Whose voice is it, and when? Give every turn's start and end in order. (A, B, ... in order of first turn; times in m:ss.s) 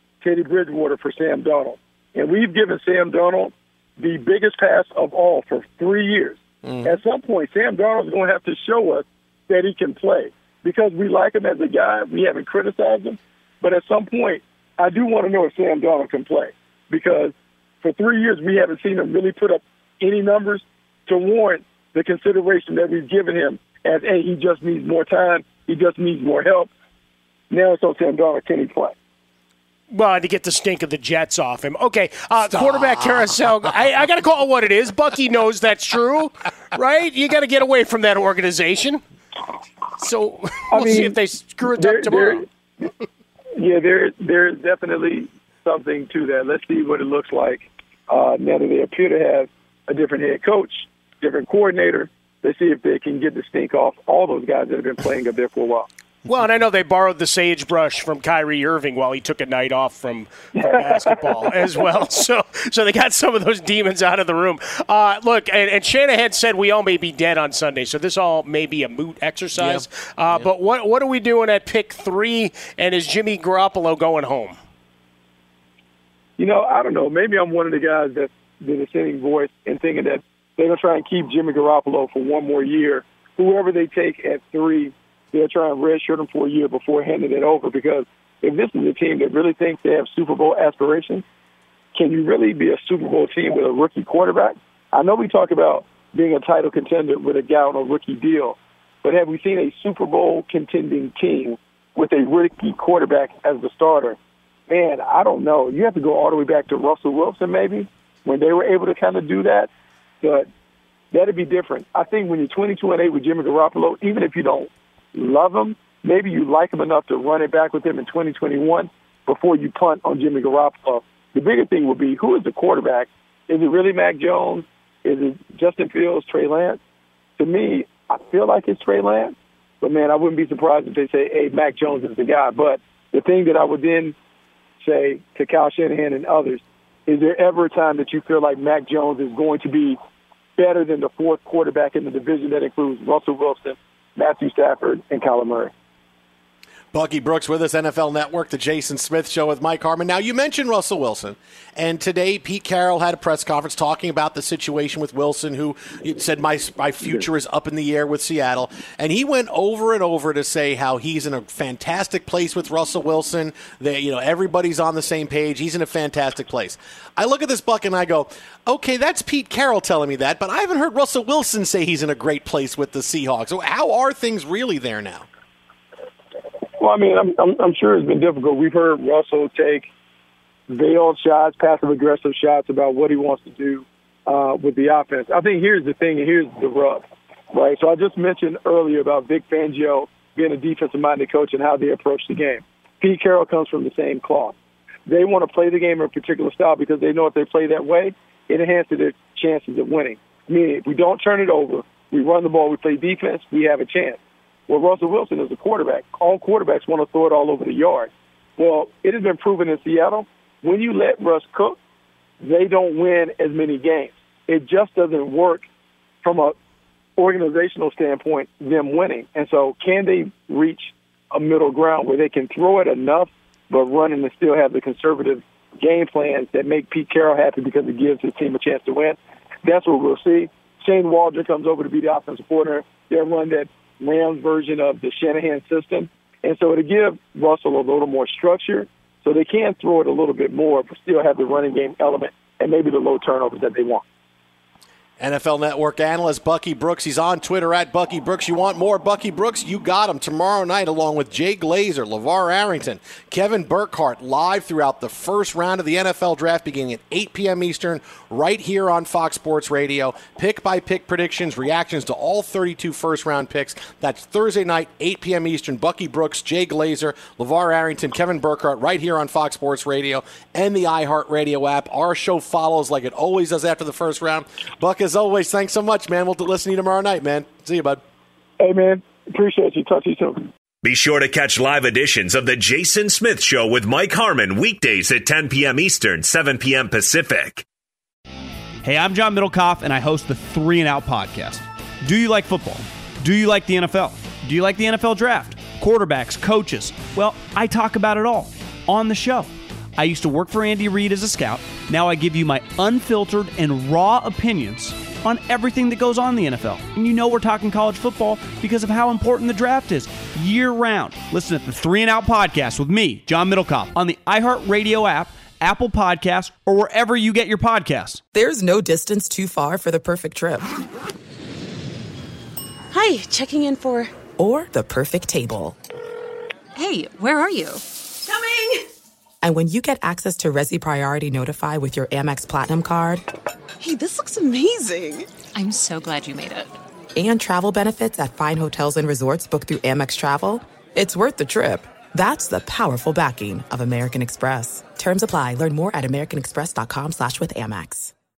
0:00.2-0:26.7 A
0:06.6-0:07.0 B
0:27.5-0:28.9 A
0:29.9-0:39.0 C
0:32.5-0:33.3 B
0:40.0-0:42.4 C
0:40.7-0:41.2 A
0:41.7-0:42.4 A
0:43.6-0:55.9 A
0:56.2-1:14.6 C
1:00.5-1:01.5 A
1:09.6-1:10.5 B
1:16.4-1:31.2 A
1:31.9-1:44.2 A
1:44.7-1:49.7 A
1:50.2-1:50.5 A
1:51.1-2:06.8 A
2:07.4-2:14.1 A
2:14.8-2:20.0 A
2:20.6-2:25.7 A
2:26.9-2:55.2 B
2:56.8-2:59.9 A
3:00.7-3:14.5 A
3:15.1-3:31.8 A
3:32.4-3:35.7 A
3:36.2-3:36.5 A
3:37.2-4:04.0 A
4:05.2-4:38.0 B
4:38.6-4:40.5 A
4:40.8-4:47.6 D
4:48.8-5:18.2 E
5:18.3-5:20.7 F
5:22.9-5:24.1 G
5:24.4-5:25.8 F
5:26.8-5:28.6 G
5:29.4-5:33.2 F
5:33.8-5:36.7 G
5:37.1-5:48.1 F